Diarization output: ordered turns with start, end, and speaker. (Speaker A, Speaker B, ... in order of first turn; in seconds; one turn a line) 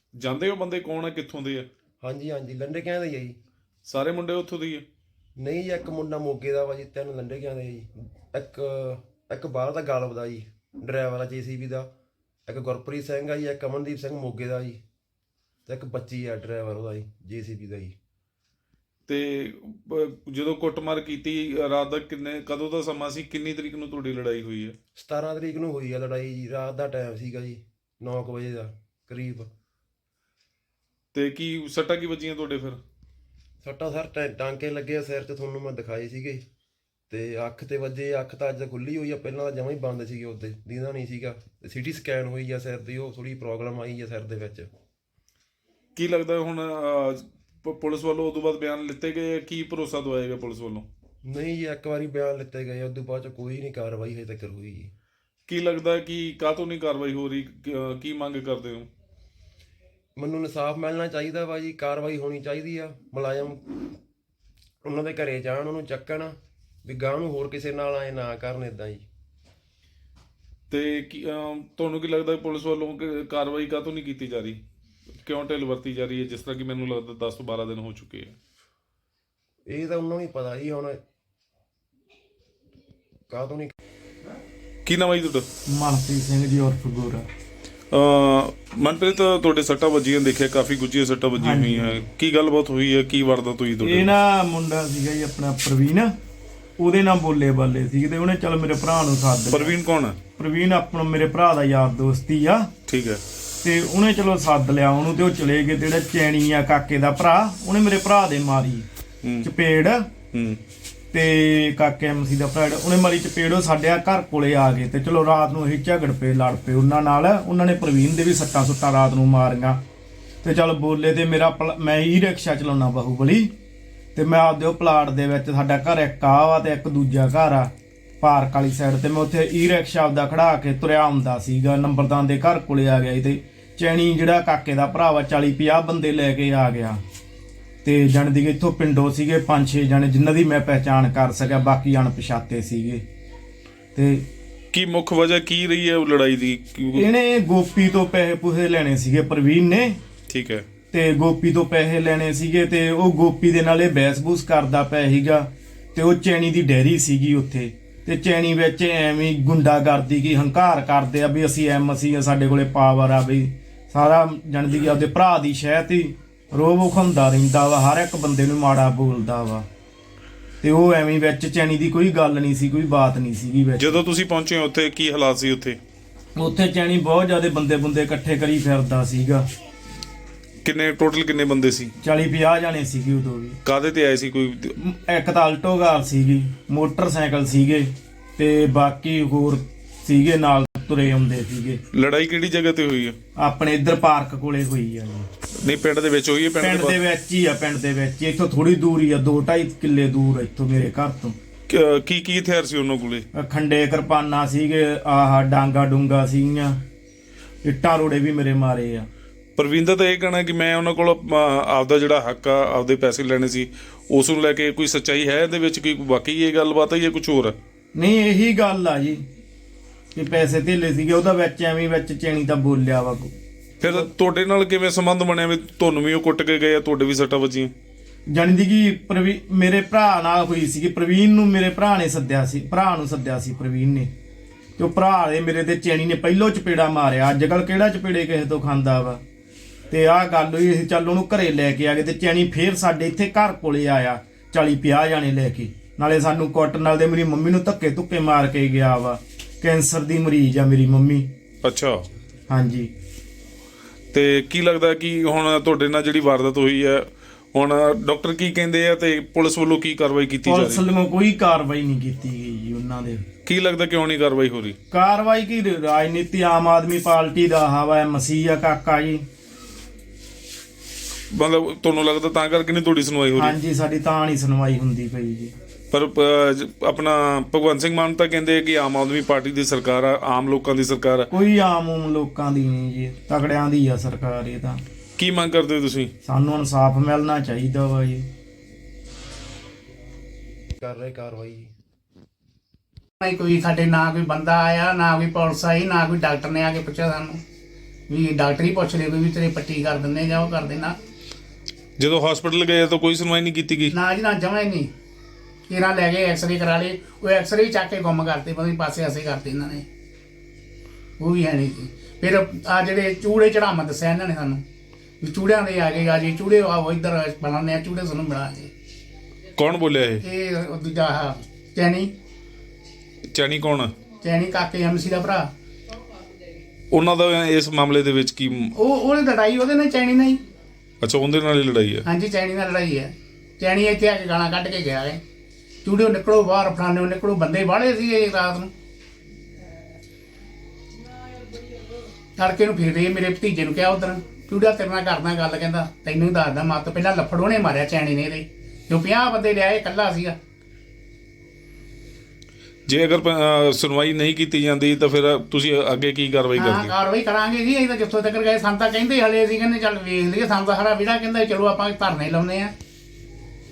Speaker A: 0.1-1.7
Speaker B: 2.0-3.4
Speaker A: 3.9-4.8
Speaker B: 5.4-11.9
Speaker B: 12.5-14.8
Speaker B: 15.7-17.9
Speaker A: 19.1-24.8
Speaker B: 25.0-29.5
Speaker A: 31.1-32.8
Speaker B: 33.6-36.4
Speaker B: 37.1-44.7
Speaker A: 46.0-50.9
Speaker B: 51.2-54.9
Speaker A: 55.5-58.9
Speaker B: 60.2-63.6
Speaker B: 64.8-69.0
Speaker A: 70.7-74.6
Speaker A: 75.2-78.3
Speaker B: 79.7-81.0
Speaker B: 83.3-83.7
Speaker A: 84.8-85.5
Speaker C: 85.7-87.2
Speaker A: 87.9-94.1
Speaker C: 91.4-92.0
Speaker C: 93.8-96.1
Speaker C: 96.8-99.8
Speaker A: 99.5-100.2
Speaker C: 100.3-102.7
Speaker A: 102.9-103.2
Speaker C: 103.6-108.8
Speaker A: 109.2-109.5
Speaker C: 109.4-110.1
Speaker A: 110.3-110.6
Speaker C: 111.1-119.8
Speaker C: 120.4-123.5
Speaker C: 124.2-137.0
Speaker C: 137.8-143.0
Speaker C: 143.9-144.2
Speaker A: 144.7-147.0
Speaker C: 146.9-150.0
Speaker A: 150.3-150.7
Speaker C: 150.9-169.7
Speaker C: 170.6-174.0
Speaker A: 173.8-175.8
Speaker C: 176.4-179.4
Speaker A: 180.6-181.9
Speaker C: 182.0-183.6
Speaker A: 183.7-184.7
Speaker C: 184.8-191.8
Speaker A: 191.9-193.2
Speaker C: 193.4-195.3
Speaker A: 195.6-197.0
Speaker C: 196.6-201.3
Speaker A: 201.7-203.2
Speaker C: 203.3-206.8
Speaker C: 207.6-209.1
Speaker A: 209.6-217.6
Speaker C: 217.9-219.2
Speaker C: 220.2-223.3
Speaker A: 223.8-227.7
Speaker C: 228.3-234.1
Speaker C: 234.8-239.2
Speaker C: 239.9-251.3
Speaker A: 251.6-252.0
Speaker C: 252.5-252.9
Speaker A: 254.1-260.8
Speaker C: 260.4-263.2
Speaker A: 263.5-264.8
Speaker C: 264.9-269.2
Speaker A: 271.3-273.5
Speaker C: 273.4-275.5
Speaker A: 275.9-281.3
Speaker C: 281.3-284.8
Speaker A: 285.2-286.1
Speaker C: 286.2-288.2
Speaker B: 290.8-291.7
Speaker D: 293.2-297.4
Speaker D: 298.1-301.0
Speaker A: 302.0-303.9
Speaker D: 303.9-304.9
Speaker D: 305.7-309.9
Speaker D: 311.2-314.6
Speaker D: 315.2-318.7
Speaker A: 319.6-320.2
Speaker D: 320.2-322.1
Speaker A: 323.3-323.9
Speaker D: 324.2-325.5
Speaker A: 326.9-328.7
Speaker D: 328.8-330.4
Speaker A: 331.0-332.1
Speaker D: 332.1-335.2
Speaker D: 335.9-338.7
Speaker D: 342.4-350.4
Speaker A: 352.9-357.0
Speaker D: 356.6-362.7